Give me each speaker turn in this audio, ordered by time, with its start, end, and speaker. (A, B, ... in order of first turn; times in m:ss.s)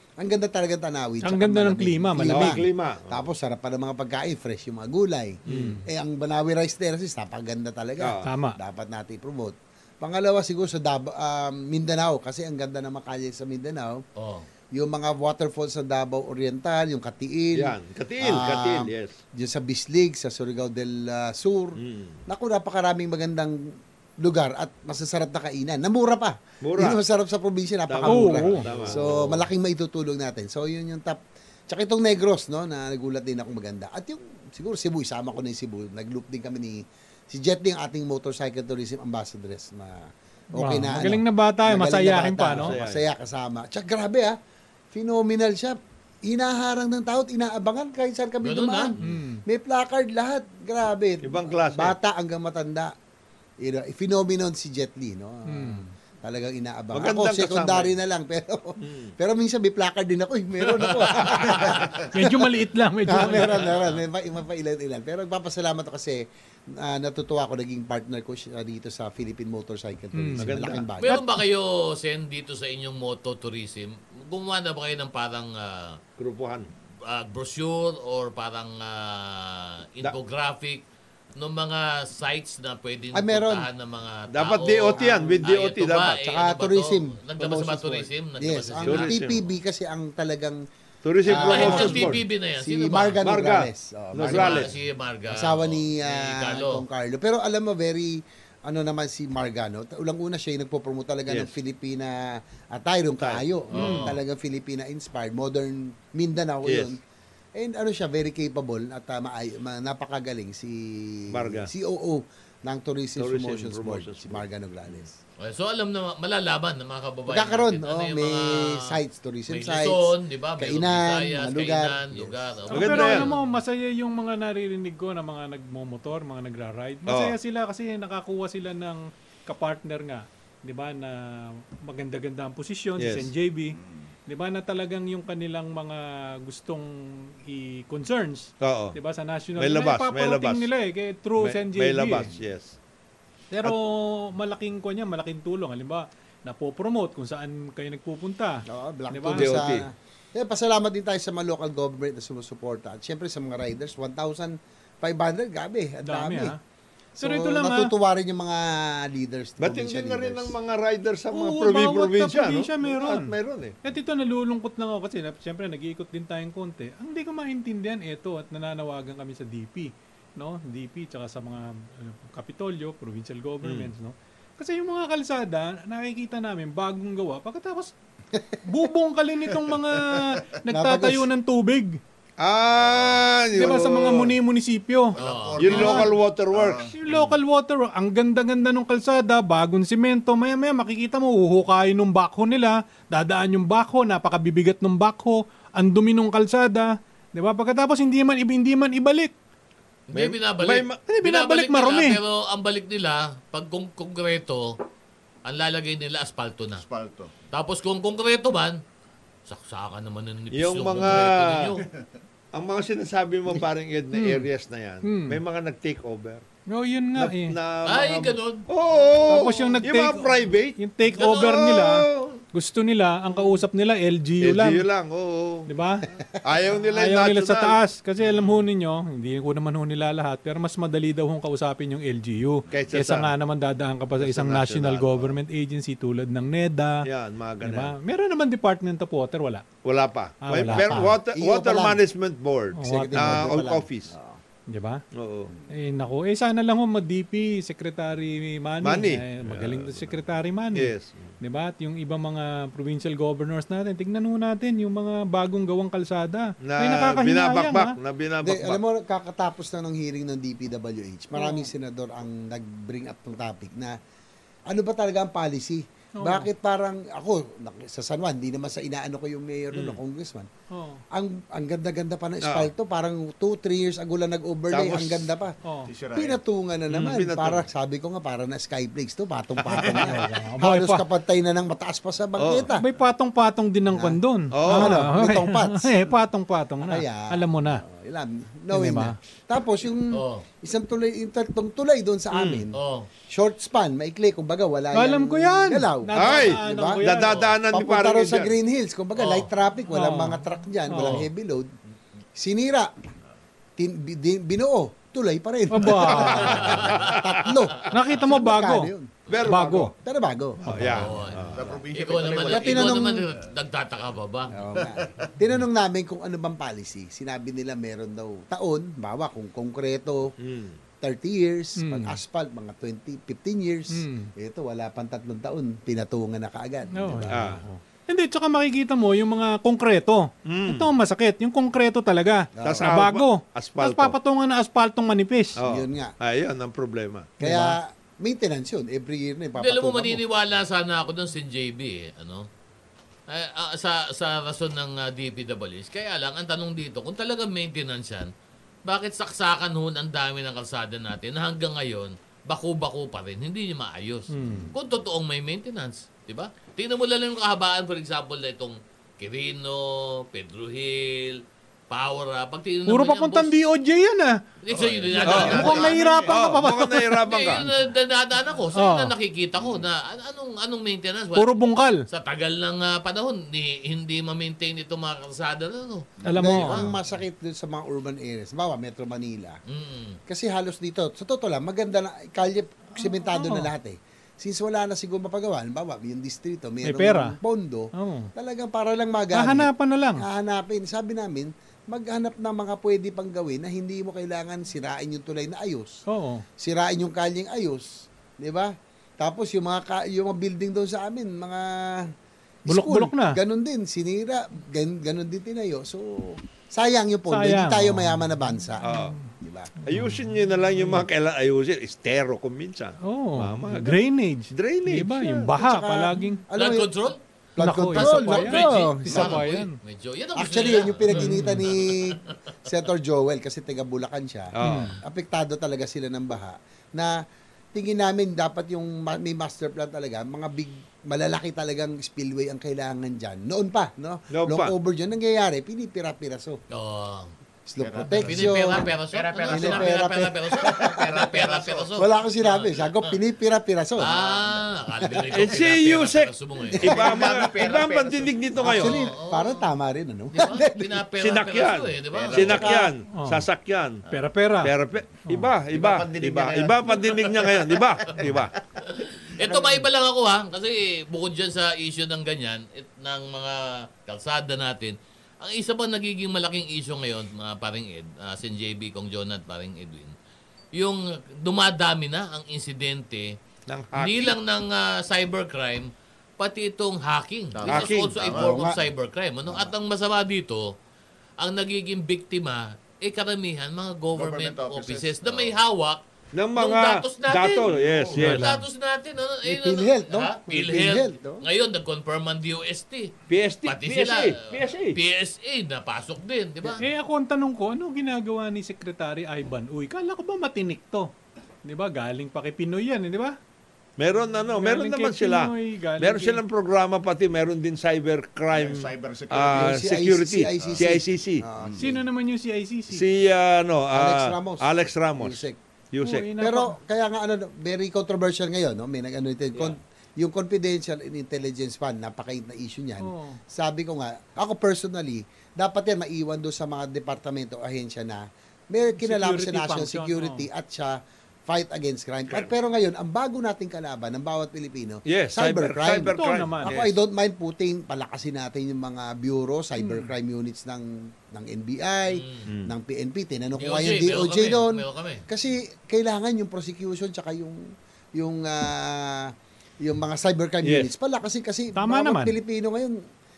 0:00.2-0:14.0 A
0:01.2-0:02.6 B
0:02.3-0:03.2 C
0:05.5-0:05.8 C
0:05.5-0:05.8 B
0:08.0-0:08.3 C
0:08.2-0:08.6 B
0:14.2-0:14.5 D
0:14.7-0:23.6 A
0:17.5-0:19.1 C
0:21.8-0:22.2 C
0:24.2-0:44.4 A
0:26.6-0:27.0 C
0:27.9-0:29.4 C
0:28.0-0:28.7 B
0:40.5-0:42.7 B
0:42.6-0:43.0 C
0:44.9-0:52.9 A
0:48.4-0:49.0 D
0:49.0-0:49.4 B
0:51.2-0:51.9 C
0:53.6-1:02.5 A
0:55.5-0:55.9 B
0:56.9-0:57.9 C
0:58.8-0:59.1 C
1:00.8-1:01.9 D
1:02.1-1:03.7 B
1:03.0-1:11.2 A
1:10.1-1:10.6 B
1:10.4-1:10.8 C
1:11.0-1:16.0 D
1:16.2-1:16.7 C
1:17.0-1:20.8 D
1:21.4-1:29.4 D
1:23.1-1:23.7 A
1:24.3-1:26.2 C
1:25.0-1:25.4 A
1:26.2-1:30.6 A
1:28.8-1:29.4 C
1:31.0-1:32.2 C
1:31.2-1:34.7 A
1:31.3-1:33.2 D
1:33.2-1:34.7 C
1:34.2-1:36.8 D
1:35.3-1:47.0 A
1:43.2-1:43.4 C
1:43.7-1:44.1 D
1:43.7-1:44.1 B
1:46.6-1:46.9 C
1:47.6-1:55.1 A
1:51.3-1:51.7 C
1:53.2-1:54.4 C
1:55.4-1:59.0 D
1:57.3-2:02.6 A
1:59.5-2:03.4 D
2:02.7-2:22.3 B
2:02.7-2:03.3 C
2:07.1-2:07.4 C
2:13.0-2:13.3 C
2:18.6-2:19.0 C
2:19.6-2:20.7 C
2:21.4-2:22.8 C
2:23.5-2:29.7 B
2:28.7-2:36.5 A
2:29.3-2:29.8 C
2:36.0-2:36.6 B
2:37.2-2:40.5 A
2:37.2-2:37.9 B
2:39.6-2:43.8 C
2:41.3-2:43.3 B
2:43.8-2:57.9 B
2:53.6-2:53.9 C
2:58.6-3:02.0 B
3:00.7-3:01.3 A
3:02.4-3:04.3 C
3:03.5-3:05.2 B
3:05.1-3:06.9 E
3:05.2-3:05.9 D
3:05.6-3:06.9 C
3:05.7-3:06.1 B
3:06.9-3:19.3 B
3:20.1-3:24.8 D
3:20.1-3:21.0 C
3:21.1-3:22.2 B
3:25.4-3:26.8 D
3:26.8-3:27.3 E
3:27.5-3:28.8 D
3:29.4-3:31.8 D
3:30.5-3:31.7 C
3:32.5-3:36.4 C
3:34.1-3:34.5 B
3:35.0-3:35.4 B
3:36.7-3:37.6 B
3:37.2-3:42.4 C
3:37.8-3:38.7 D
3:39.3-3:44.8 B
3:44.4-3:45.7 C
3:45.7-3:46.0 B
3:46.4-3:47.8 C
3:46.9-3:57.1 B
3:52.7-3:53.3 C
3:54.2-3:55.4 C
3:57.0-3:57.9 C
3:57.6-3:59.6 B
3:59.8-4:04.1 C
4:00.4-4:01.1 B
4:00.6-4:02.0 A
4:02.8-4:03.5 B
4:02.8-4:04.4 A
4:04.7-4:05.0 B
4:05.1-4:05.5 C
4:05.7-4:17.9 B
4:08.8-4:10.1 C
4:10.7-4:11.3 C
4:16.6-4:18.8 C
4:18.4-4:24.0 A
4:21.3-4:21.7 B
4:24.7-4:30.5 A
4:26.2-4:26.5 B
4:29.7-4:30.0 C
4:30.7-4:31.0 B
4:31.1-4:35.5 A
4:32.4-4:32.7 C
4:34.7-4:35.3 C
4:35.9-4:36.4 E
4:36.1-4:42.8 A
4:36.9-4:37.6 C
4:39.6-4:40.2 C
4:39.8-4:41.0 B
4:42.4-4:42.7 C
4:42.7-4:47.8 B
4:43.9-4:46.0 A
4:44.5-4:45.0 C
4:46.8-4:52.8 A
4:48.7-4:49.2 B
4:50.1-4:50.4 D
4:52.3-4:52.6 C
4:52.7-4:53.1 D
4:53.3-4:57.0 A
4:54.9-4:57.4 B
4:56.1-4:58.5 C
4:57.7-5:01.7 A
4:59.2-4:59.5 D
4:59.9-5:01.3 B
5:02.4-5:02.9 A
5:03.8-5:09.1 A
5:05.7-5:06.7 B
5:06.1-5:07.2 C
5:06.4-5:07.2 D
5:07.9-5:08.9 B
5:09.3-5:09.9 C
5:09.4-5:09.9 B
5:10.0-5:11.1 A
5:10.6-5:11.8 C
5:10.8-5:14.5 D
5:11.3-5:13.2 E
5:12.4-5:13.3 A
5:14.5-5:20.3 A
5:14.7-5:15.3 E
5:20.4-5:20.8 C
5:21.0-5:27.6 A
5:21.8-5:22.2 B
5:23.9-5:24.3 B
5:26.9-5:35.6 B
5:27.3-5:27.6 C
5:30.4-5:30.9 C
5:32.6-5:32.9 A
5:32.6-5:34.1 C
5:35.6-5:37.4 C
5:35.6-5:36.1 A
5:37.4-5:40.2 A
5:37.4-5:37.7 B
5:39.6-5:42.5 D
5:43.3-5:48.3 D
5:48.8-6:03.5 D
5:54.3-5:54.7 B
6:02.9-6:04.4 B
6:04.6-6:06.0 D
6:04.7-6:06.3 E
6:05.2-6:07.2 B
6:05.2-6:07.7 C
6:07.2-6:11.5 D
6:08.7-6:09.1 B
6:11.4-6:12.0 B
6:12.1-6:16.9 D
6:16.2-6:16.8 B
6:16.4-6:19.6 A
6:19.7-6:20.2 D
6:20.3-6:36.0 A
6:23.0-6:23.7 B
6:26.8-6:27.4 B
6:27.9-6:28.3 B
6:29.3-6:30.2 B
6:36.1-6:36.4 B
6:36.6-6:42.1 A
6:42.6-6:49.7 A
6:42.7-6:43.4 B
6:47.3-6:48.2 B
6:48.8-6:49.1 C
6:48.8-6:49.3 B
6:49.8-6:51.0 B
6:49.8-6:55.5 C
6:53.0-6:56.4 B
6:55.5-6:56.9 A
6:56.5-6:57.2 D
6:57.6-6:59.4 A
6:57.6-6:59.8 B
6:57.9-7:02.3 D
7:00.4-7:07.2 A
7:01.1-7:01.6 B
7:04.5-7:04.9 C
7:04.6-7:04.9 B
7:07.7-7:16.6 A
7:14.3-7:14.7 C
7:16.7-7:17.3 D
7:17.6-7:18.9 A
7:17.8-7:19.8 E
7:18.1-7:23.2 D
7:19.4-7:21.3 A
7:21.1-7:21.8 E
7:22.0-7:24.1 A
7:24.0-7:27.0 D
7:25.3-7:29.0 C
7:26.7-7:27.5 A
7:27.4-7:27.8 E
7:28.6-7:31.0 A
7:28.6-7:29.7 D
7:30.3-7:32.7 D
7:31.2-7:34.0 C
7:32.3-7:32.6 E
7:32.3-7:32.9 A
7:33.1-7:33.4 B
7:34.1-7:34.7 B
7:34.6-7:38.5 C
7:35.8-7:37.2 E
7:38.8-7:50.1 D
7:39.4-7:39.7 E
7:50.8-7:53.3 D
7:53.7-7:54.4 C
7:53.9-8:00.7 D
7:57.5-7:58.5 E
7:57.7-7:58.3 C
7:58.3-7:58.8 A
8:01.4-8:06.0 D
8:04.1-8:05.6 E
8:06.3-8:08.5 C
8:06.6-8:13.1 D
8:08.2-8:08.6 B
8:09.4-8:11.4 A
8:13.3-8:15.0 C
8:13.6-8:16.8 D
8:16.8-8:21.1 B
8:21.6-8:23.4 B
8:24.0-8:31.4 C
8:24.6-8:26.4 B
8:28.5-8:29.9 E
8:29.5-8:32.0 A
8:30.5-8:30.8 E
8:31.8-8:33.0 B
8:32.9-8:36.3 C
8:33.9-8:35.6 A
8:36.0-8:36.7 B
8:36.4-9:07.6 A
8:43.0-8:43.4 B
8:49.0-8:50.5 B
8:55.1-8:57.0 C
8:56.1-8:56.7 B
8:59.8-9:00.1 B
9:02.1-9:02.5 D
9:02.5-9:02.7 C
9:03.6-9:05.2 D
9:08.2-9:09.3 A
9:09.8-9:13.0 A
9:10.6-9:10.9 C
9:11.8-9:12.3 B